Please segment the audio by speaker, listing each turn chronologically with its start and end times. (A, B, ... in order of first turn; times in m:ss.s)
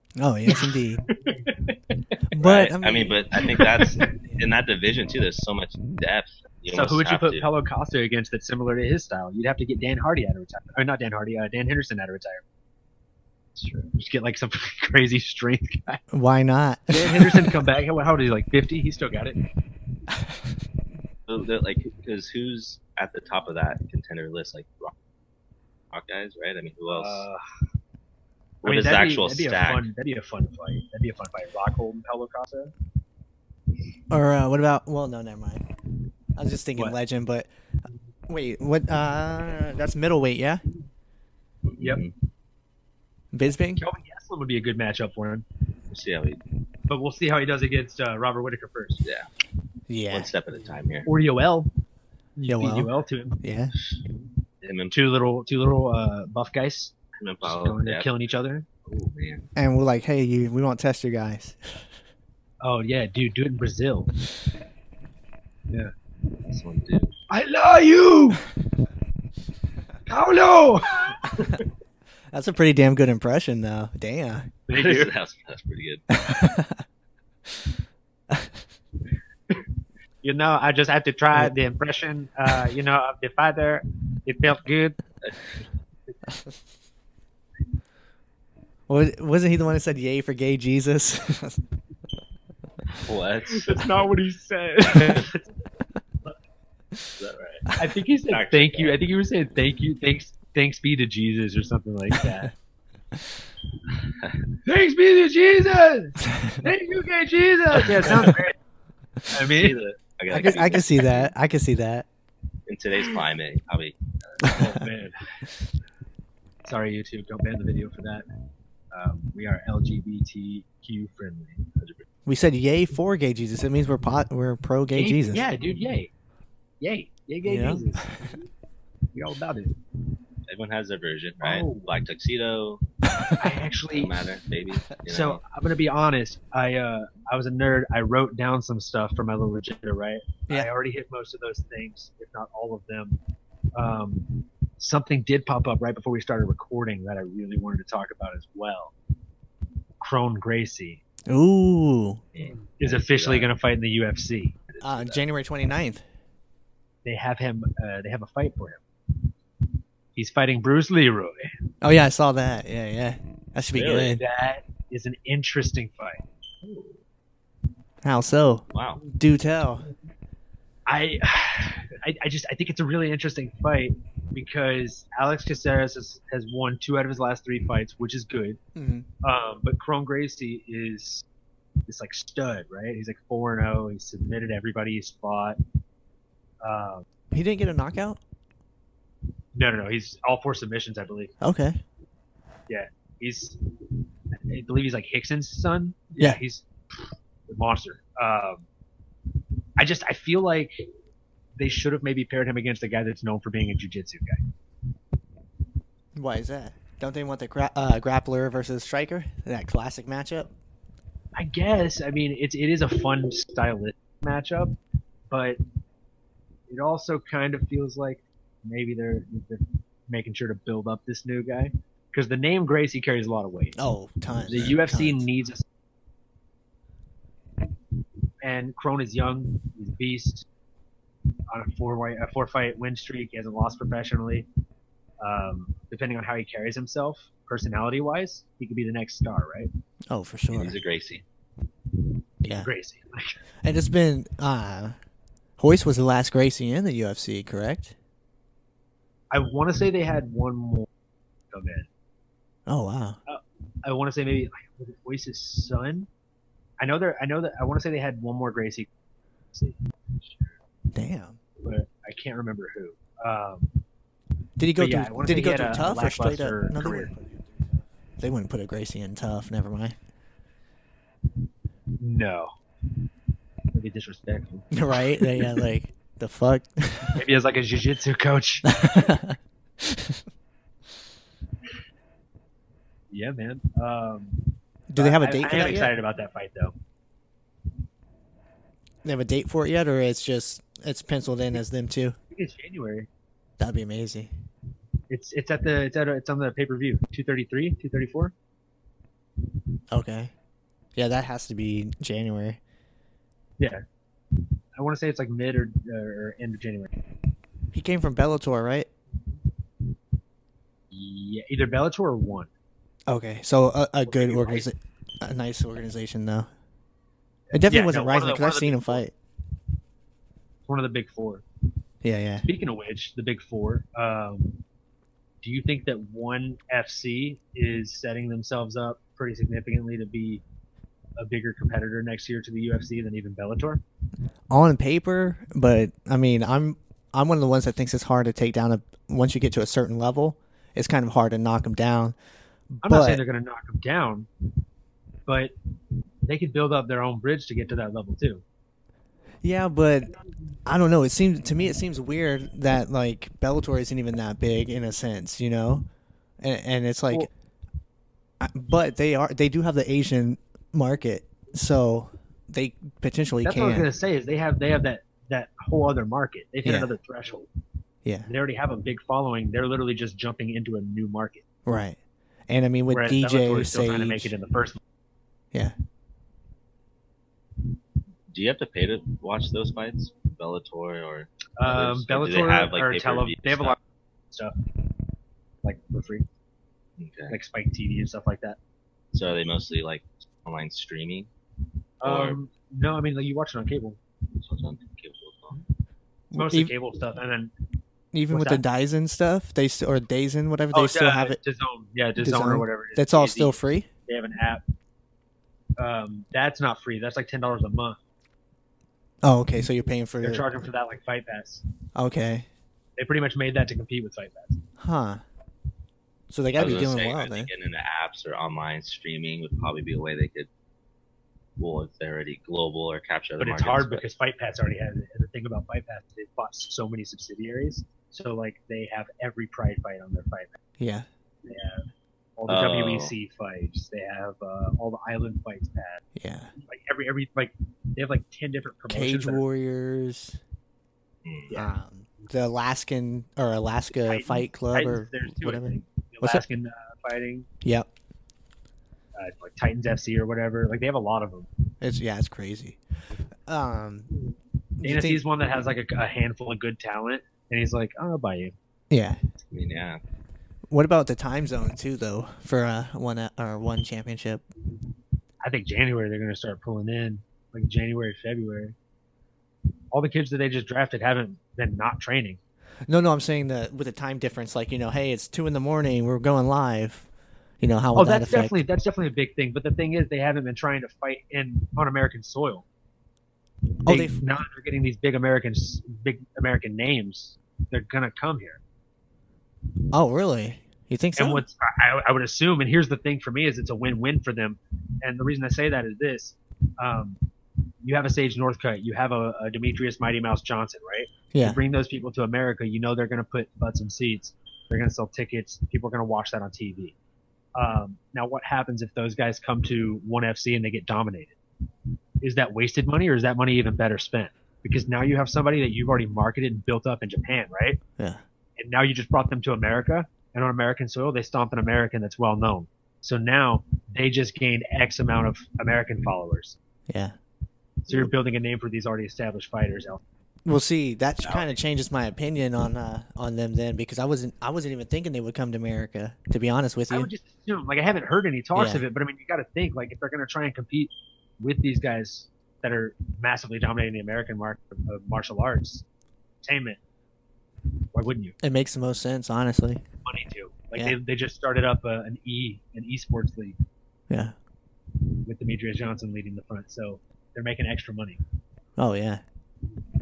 0:00.2-0:01.1 A
0:00.5-0:02.0 B
0:02.3-0:03.2 A
0:02.4-0:07.5 C
0:03.5-0:04.0 B
0:06.7-0:12.4 B
0:13.6-0:13.9 C
0:14.0-0:16.0 B
0:16.1-0:17.6 A
0:16.9-0:19.4 B
0:21.3-0:24.9 C
0:25.9-0:27.3 C
0:26.9-0:27.4 B
0:28.6-0:29.9 C
0:28.6-0:32.7 B
0:34.1-0:35.6 A
0:36.4-0:37.5 A
0:38.3-0:40.6 A
0:41.7-0:42.1 C
0:43.3-0:43.8 A
0:43.8-0:45.4 B
0:45.9-0:46.4 C
0:46.9-0:49.0 B
0:49.9-0:50.3 A
0:50.1-0:51.1 C
0:51.1-0:51.7 B
0:52.4-0:53.4 B
0:52.5-0:52.9 A
0:53.4-0:53.7 A
0:54.6-0:55.0 C
0:54.9-0:58.7 B
0:57.2-0:58.1 C
0:58.9-0:59.5 C
0:59.6-1:01.8 A
1:02.6-1:04.1 B
1:06.4-1:07.2 C
1:07.3-1:08.4 B
1:10.1-1:11.6 B
1:12.3-1:14.5 A
1:14.7-1:15.1 B
1:14.8-1:16.0 C
1:16.1-1:16.8 A
1:18.3-1:18.6 A
1:20.2-1:25.0 B
1:28.9-1:31.6 A
1:33.0-1:33.9 C
1:33.5-1:35.4 B
1:37.2-1:37.7 C
1:37.8-1:42.5 B
1:38.3-1:39.0 C
1:44.0-1:44.4 C
1:44.6-1:48.6 B
1:49.3-1:49.8 B
1:49.5-1:51.3 C
1:50.3-1:52.1 A
1:52.7-1:54.6 C
1:54.4-1:54.8 A
1:54.5-1:55.2 B
1:56.6-1:58.2 B
1:58.9-2:01.7 B
2:01.8-2:02.0 C
2:02.3-2:05.5 A
2:04.9-2:06.1 B
2:06.8-2:08.4 B
2:07.4-2:07.8 A
2:09.2-2:09.8 B
2:10.5-2:12.8 C
2:11.4-2:11.9 B
2:13.4-2:14.1 B
2:13.9-2:15.4 C
2:15.1-2:23.2 B
2:23.8-2:28.9 B
2:30.0-2:31.0 B
2:31.3-2:32.2 A
2:32.3-2:33.5 C
2:32.8-2:34.6 B
2:34.7-2:35.2 C
2:34.8-2:36.0 A
2:37.0-2:38.8 B
2:40.2-2:41.5 B
2:41.8-2:44.2 A
2:43.7-2:44.2 C
2:44.1-2:46.2 B
2:46.6-2:47.0 C
2:48.0-2:49.9 A
2:48.7-2:49.0 C
2:50.9-2:58.6 B
2:58.8-2:59.1 A
2:59.2-3:01.3 B
3:01.9-3:05.6 B
3:06.6-3:07.1 B
3:07.3-3:08.2 A
3:09.5-3:11.3 B
3:11.4-3:11.8 A
3:12.7-3:13.6 B
3:14.4-3:18.6 B
3:19.8-3:20.8 B
3:21.6-3:24.4 B
3:26.2-3:30.5 A
3:31.4-3:34.8 B
3:35.3-3:35.6 B
3:36.7-3:43.8 B
3:43.8-3:45.3 A
3:44.5-3:45.6 B
3:48.4-3:50.5 B
3:51.5-3:54.5 B
3:55.2-3:59.7 B
4:00.1-4:00.8 A
4:00.5-4:01.2 C
4:02.4-4:03.4 B
4:03.6-4:05.0 A
4:05.6-4:08.0 A
4:09.3-4:10.9 B
4:11.5-4:11.9 B
4:12.7-4:13.2 A
4:13.3-4:16.1 B
4:16.8-4:18.9 B
4:19.5-4:20.5 B
4:20.9-4:21.4 A
4:21.6-4:23.7 B
4:24.6-4:30.0 A
4:24.8-4:27.1 B
4:32.0-4:32.5 B
4:33.7-4:35.4 B
4:34.7-4:37.2 A
4:37.2-4:39.0 B
4:38.7-4:40.2 A
4:43.1-4:46.7 B
4:44.9-4:45.9 A
4:49.0-4:52.2 A
4:52.3-4:53.1 B
4:53.6-4:54.3 A
4:55.1-4:58.3 B
4:59.9-5:00.3 A
5:01.0-5:02.6 A
5:04.8-5:06.9 B
5:07.7-5:08.9 A
5:10.9-5:12.5 B
5:13.1-5:16.5 A
5:14.1-5:14.7 B
5:17.5-5:19.0 B
5:17.5-5:19.1 A
5:20.7-5:21.4 B
5:22.0-5:22.5 A
5:22.4-5:24.6 B
5:25.4-5:30.4 B
5:31.2-5:33.8 B
5:34.5-5:42.2 A
5:42.7-5:43.2 A
5:42.8-5:44.3 B
5:45.3-5:45.5 B
5:46.2-5:48.4 B
5:49.4-5:50.1 A
5:50.7-5:55.8 A
5:56.4-5:57.3 A
5:58.4-6:03.9 A
6:03.4-6:07.5 B
6:06.6-6:06.9 A
6:08.3-6:11.4 B
6:11.7-6:14.3 A
6:12.9-6:14.8 B
6:18.3-6:23.8 C
6:21.6-6:23.8 B
6:25.6-6:26.3 B
6:27.0-6:27.4 C
6:27.3-6:28.6 B
6:29.1-6:31.3 C
6:32.0-6:34.0 B
6:32.0-6:32.4 C
6:34.4-6:35.6 C
6:36.3-6:36.7 A
6:36.3-6:37.5 B
6:38.1-6:41.4 A
6:38.3-6:38.6 B
6:40.7-6:44.6 B
6:42.2-6:43.9 A
6:45.8-6:48.0 B
6:49.2-6:50.5 A
6:50.2-6:51.6 B
6:52.0-6:52.5 A
6:53.0-6:54.6 B
6:54.8-6:55.2 A
6:56.3-6:57.5 A
6:56.6-7:00.5 C
7:01.6-7:04.0 C
7:03.4-7:10.6 B
7:10.8-7:11.1 A
7:11.5-7:16.0 B
7:12.5-7:13.1 C
7:16.2-7:16.5 A
7:16.6-7:19.4 B
7:18.9-7:20.4 A
7:21.2-7:21.5 C
7:21.5-7:21.8 B
7:21.5-7:26.4 A
7:24.0-7:27.5 B
7:29.2-7:31.5 B
7:31.8-7:32.8 A
7:33.5-7:34.1 A
7:34.8-7:35.2 A
7:34.8-7:38.5 B
7:38.9-7:39.2 A
7:39.5-7:40.0 C
7:40.7-7:44.4 A
7:45.4-7:48.8 B
7:49.9-7:52.4 B
7:52.9-7:57.1 A
7:57.6-7:58.6 A
7:58.0-8:02.7 B
8:03.9-8:04.2 A
8:03.9-8:08.6 B
8:09.9-8:11.4 A
8:11.2-8:17.2 B
8:17.8-8:27.0 B
8:21.3-8:21.6 A
8:27.6-8:31.4 B
8:32.2-8:37.8 B
8:38.0-8:38.2 A
8:38.6-8:46.6 B
8:46.9-8:47.2 A
8:47.9-8:50.0 B
8:50.4-8:57.1 A
8:56.9-9:05.8 B
8:58.6-8:58.8 A
9:06.4-9:06.8 B
9:07.9-9:08.4 B
9:08.4-9:09.8 A
9:10.0-9:13.6 B
9:14.1-9:14.4 A
9:15.2-9:18.2 B
9:18.8-9:19.2 A